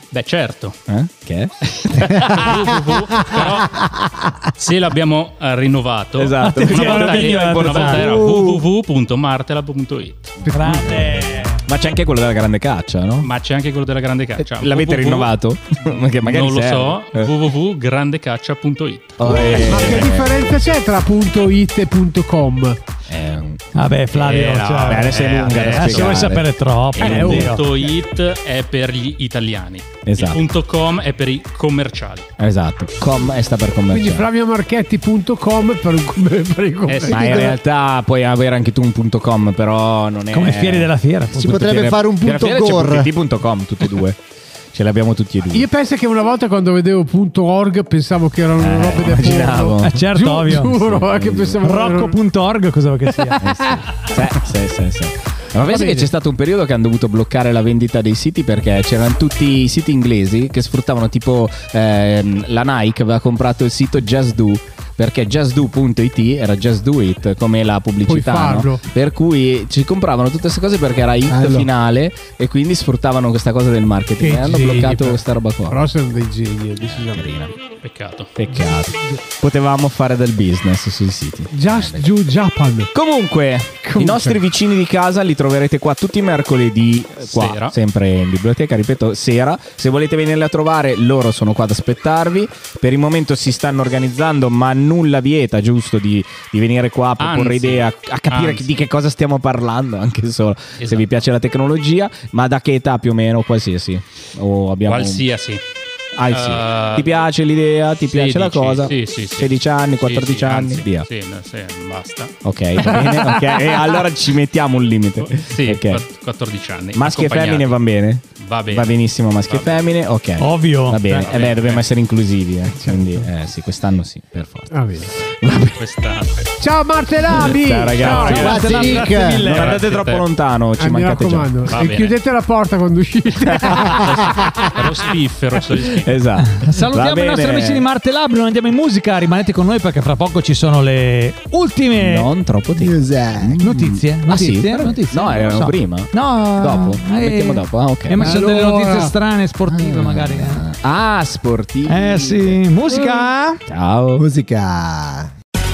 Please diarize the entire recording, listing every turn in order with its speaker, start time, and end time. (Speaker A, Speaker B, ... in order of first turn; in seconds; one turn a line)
Speaker A: 0.1-0.8
Speaker B: 0.9-2.7
Speaker C: 2.0-4.3
Speaker A: 2.1-3.9
Speaker A: 4.6-10.4
Speaker B: 6.2-8.3
Speaker D: 6.4-8.1
Speaker C: 8.0-8.6
Speaker D: 10.5-11.6
Speaker B: 10.6-11.1
Speaker B: 11.7-13.3
Speaker A: 13.2-15.3
Speaker B: 14.4-17.3
Speaker A: 16.2-20.1
Speaker B: 19.2-20.6
Speaker E: 19.5-22.8
Speaker B: 23.1-23.6
Speaker D: 23.8-27.6
Speaker A: 24.1-26.3
Speaker B: 24.9-27.5
Speaker A: 27.0-32.3
Speaker E: 27.0-27.5
Speaker B: 30.0-30.4
Speaker B: 32.4-34.3
Speaker E: 33.9-37.5
Speaker A: 36.9-37.5
Speaker B: 37.1-40.9
Speaker D: 40.3-41.7
Speaker C: 41.3-43.1
Speaker B: 41.5-44.2
Speaker B: 44.7-45.7
Speaker E: 45.5-52.2
Speaker B: 48.6-50.0
Speaker D: 49.8-50.8
Speaker B: 50.8-51.6
Speaker D: 51.6-53.7
Speaker E: 53.4-53.8
Speaker B: 53.4-75.8
Speaker E: 55.6-56.1
Speaker E: 68.1-68.8
Speaker C: 71.3-71.7
Speaker E: 74.2-77.4
Speaker B: 76.8-77.5
Speaker A: 77.8-78.3
Speaker B: 78.4-82.1
Speaker E: 78.5-79.2
Speaker E: 81.5-82.9
Speaker B: 82.9-105.2
Speaker E: 83.8-84.4
Speaker A: 87.3-87.8
Speaker A: 97.2-98.7
Speaker A: 100.8-101.1
Speaker A: 104.9-105.6
Speaker B: 106.2-111.1
Speaker A: 106.3-107.2
Speaker A: 108.1-112.4
Speaker B: 112.4-116.0
Speaker A: 115.2-117.8
Speaker B: 116.9-125.8
Speaker A: 118.3-119.9
Speaker D: 120.4-121.3
Speaker A: 121.2-121.9
Speaker E: 122.8-123.2
Speaker E: 124.7-125.1
Speaker A: 125.8-126.5
Speaker E: 126.6-128.6
Speaker B: 127.3-131.6
Speaker D: 128.1-129.9
Speaker C: 128.3-129.6
Speaker A: 129.6-130.2
Speaker E: 130.8-134.8
Speaker A: 131.7-132.2
Speaker A: 134.7-136.1
Speaker B: 135.8-137.8
Speaker D: 136.5-142.3
Speaker B: 141.9-148.3
Speaker C: 142.7-143.7
Speaker D: 143.6-150.7
Speaker E: 148.1-149.1
Speaker C: 149.7-150.3
Speaker B: 150.0-152.6
Speaker D: 151.9-153.6
Speaker B: 153.7-154.3
Speaker C: 154.2-155.3